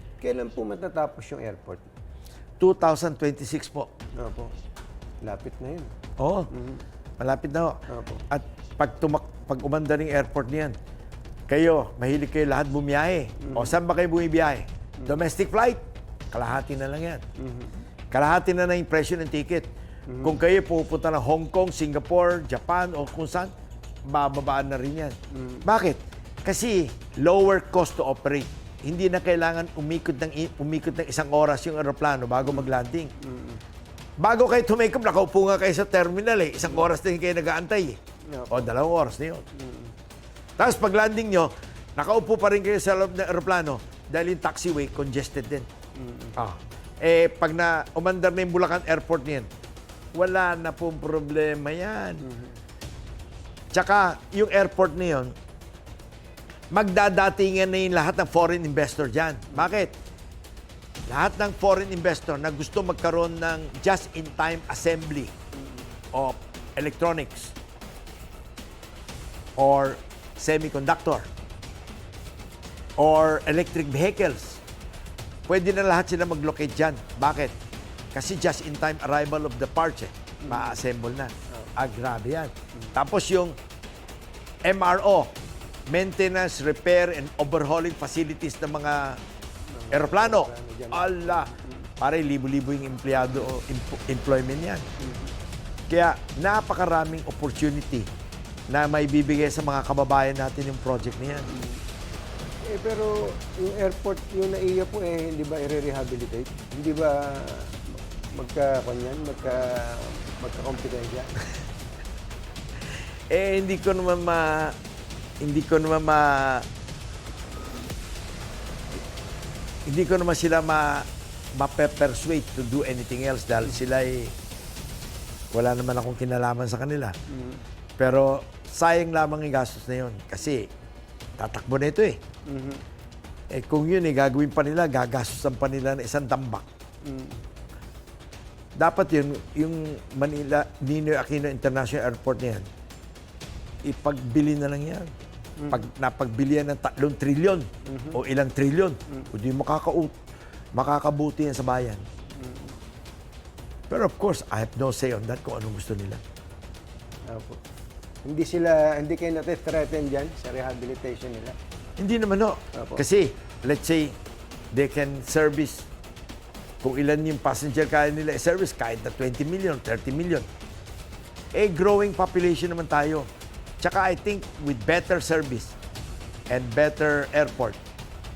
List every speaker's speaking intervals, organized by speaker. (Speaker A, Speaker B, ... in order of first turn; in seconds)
Speaker A: 0.2-1.9, 4.2-4.5, 5.2-5.9, 6.5-6.8, 7.9-8.2, 13.4-13.8, 17.4-17.8, 20.1-20.4, 25.3-25.7, 32.4-33.6, 38.3-38.7, 39.5-39.9, 46.0-46.4, 52.2-52.6, 65.6-65.9, 80.4-80.8, 89.7-91.9, 95.0-95.3, 101.5-101.8, 102.7-111.4, 127.3-127.7, 132.5-132.8, 137.0-137.4, 145.6-145.9, 147.8-148.2, 152.4-152.8, 157.3-157.6, 158.2-161.6, 162.7-163.0
Speaker B: 2.6-3.9, 6.2-6.5, 7.2-10.8, 11.5-17.2, 18.1-19.7, 20.2-23.5, 24.1-33.1, 34.2-38.0, 38.5-39.5, 40.6-45.7, 46.4-49.5, 50.1-52.2, 53.7-55.4, 56.7-60.0, 61.1-65.3, 66.1-67.6, 69.6-71.3, 73.0-74.6, 75.5-77.5, 78.1-83.6, 84.7-85.4, 85.9-89.2, 89.9-94.9, 95.9-98.1, 98.7-101.5, 113.3-114.8, 115.4-116.7, 119.9-124.3, 125.5-127.2, 128.0-130.7, 131.4-132.2, 133.5-136.7, 138.8-142.7, 143.8-145.1, 145.7-150.2, 150.7-152.0, 153.9-156.2, 162.0-164.2, 164.7-165.9, 166.8-170.5, 171.5-173.3, 173.8-175.8, 176.5-177.8